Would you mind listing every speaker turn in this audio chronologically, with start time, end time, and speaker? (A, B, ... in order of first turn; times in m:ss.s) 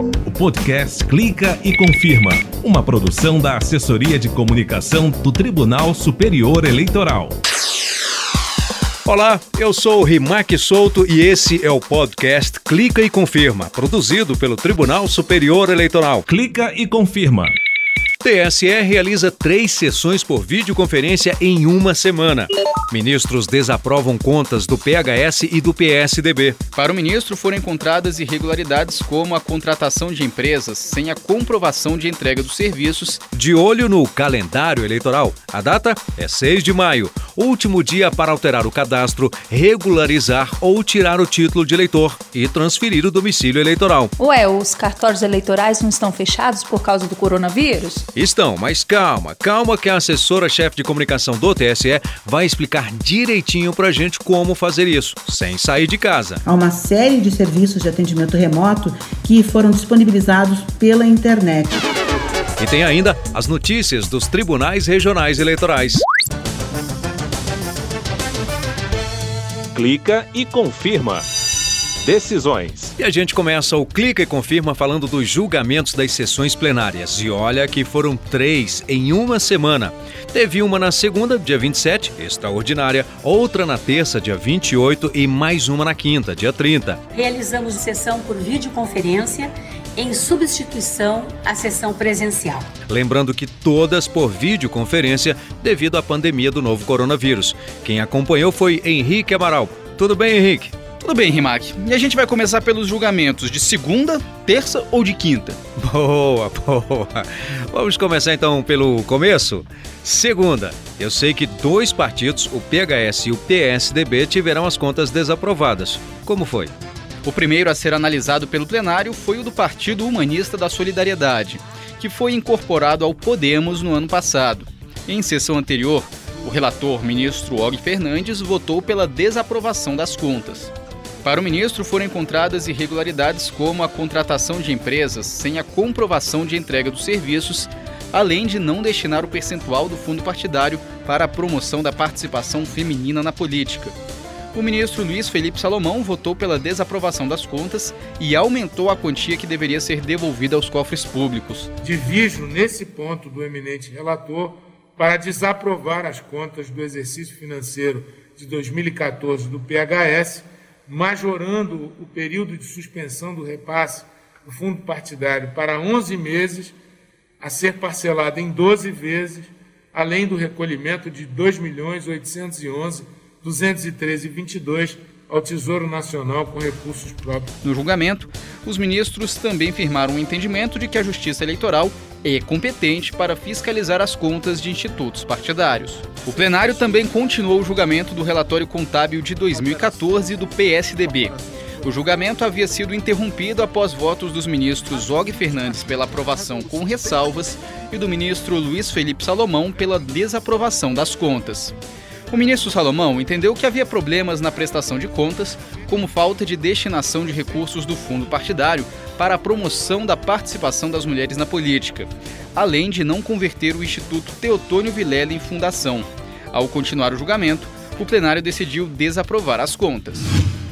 0:00.2-0:07.4 A
0:09.1-0:16.3 B
0:16.3-0:17.5 A
0:18.2-0:26.6 B
0:26.8-0:33.2 C
0:33.3-0:44.1 B
0:44.2-0:48.0 D
0:48.1-0:56.4 B
0:56.4-1:01.8 E
1:02.6-1:06.0 B
1:09.7-1:11.2 A
1:12.0-1:12.9 A
1:13.0-1:27.0 B
1:27.2-1:32.7 F
1:32.9-1:40.8 B
1:41.0-1:45.6 C
1:45.8-1:56.7 B
1:57.3-2:10.7 C
2:11.2-2:24.0 C
2:24.5-2:31.7 C
2:31.8-2:46.7 G
2:47.4-2:57.5 G
2:57.6-3:21.7 C
3:22.3-3:40.3 C